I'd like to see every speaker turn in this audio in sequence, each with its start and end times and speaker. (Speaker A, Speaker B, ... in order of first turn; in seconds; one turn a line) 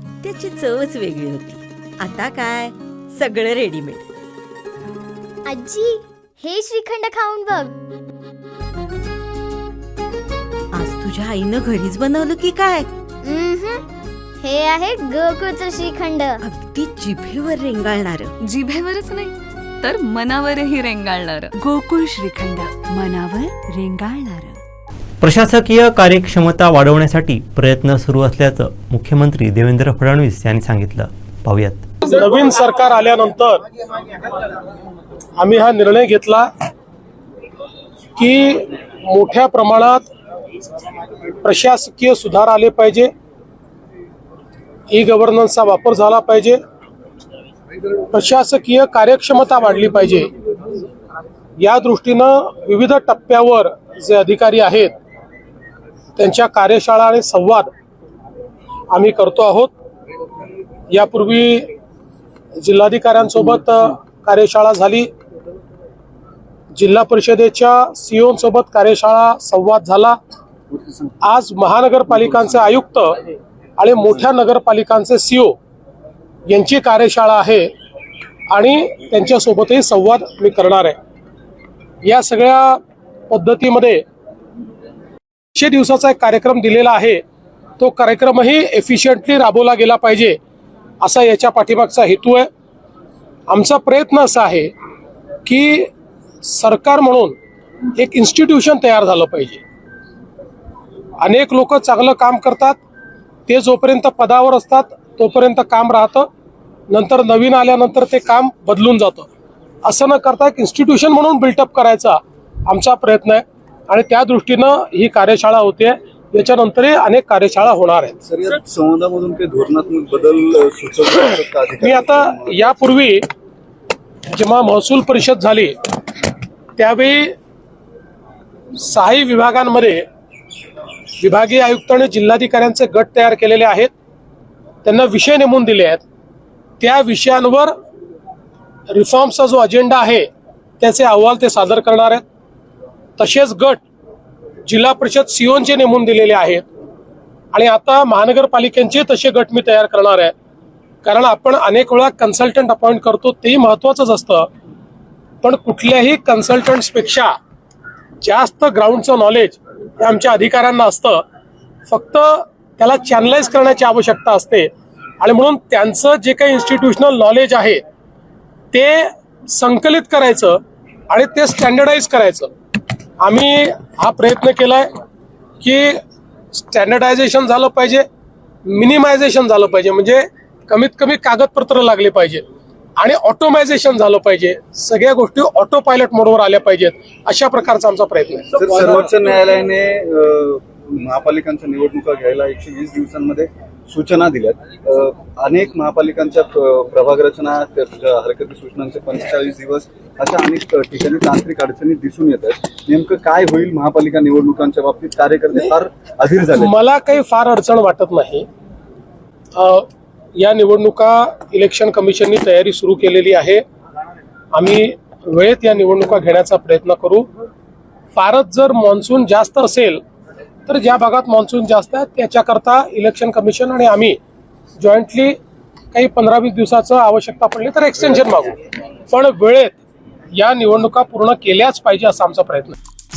Speaker A: 0.2-4.0
Speaker B: 5.5-7.8
Speaker A: 10.7-12.9
Speaker B: 13.2-13.8
Speaker B: 14.4-16.4
Speaker A: 16.4-18.3
Speaker C: 18.4-21.6
Speaker D: 21.7-24.4
Speaker E: 25.2-31.9
Speaker F: 32.0-33.6
Speaker F: 35.4-36.5
Speaker F: 38.2-40.1
Speaker F: 41.4-43.1
Speaker F: 44.9-46.6
Speaker F: 48.1-50.3
Speaker F: 51.6-54.9
Speaker F: 56.2-57.7
Speaker F: 58.9-59.7
Speaker F: 60.9-61.7
Speaker F: 62.6-65.1
Speaker F: 66.7-70.2
Speaker G: 70.7-71.1
Speaker F: 71.2-73.2
Speaker G: 72.3-72.7
Speaker F: 73.8-75.5
Speaker F: 76.5-77.7
Speaker F: 78.5-81.0
Speaker F: 82.0-84.0
Speaker F: 85.5-87.2
Speaker F: 87.8-90.4
Speaker F: 91.0-92.5
Speaker F: 93.5-94.7
Speaker F: 95.5-95.9
Speaker F: 96.4-97.3
Speaker F: 98.0-99.6
Speaker F: 101.2-102.8
Speaker F: 103.5-106.3
Speaker F: 106.9-109.3
Speaker F: 109.8-118.2
Speaker G: 118.2-122.9
Speaker F: 121.8-123.2
Speaker F: 124.3-125.8
Speaker F: 126.8-127.3
Speaker F: 128.8-130.1
Speaker F: 131.2-133.9
Speaker F: 134.8-136.0
Speaker F: 136.8-137.7
Speaker F: 138.9-140.3
Speaker F: 140.8-142.2
Speaker F: 143.2-143.8
Speaker F: 144.7-146.6
Speaker F: 147.5-150.3
Speaker F: 151.0-154.5
Speaker F: 155.4-157.3
Speaker F: 158.2-161.2
Speaker F: 161.9-164.7
Speaker F: 165.2-167.8
Speaker F: 168.7-172.5
Speaker F: 173.2-174.9
Speaker F: 175.6-176.0
Speaker F: 176.5-178.1
Speaker F: 178.7-182.4
Speaker F: 183.0-188.6
Speaker G: 188.5-206.7
Speaker F: 206.5-208.5
Speaker F: 209.6-213.6
Speaker F: 214.5-217.3
Speaker F: 218.1-220.0
Speaker F: 220.7-224.2
Speaker F: 224.8-225.4
Speaker F: 225.9-228.6
Speaker F: 229.1-229.8
Speaker F: 230.4-232.8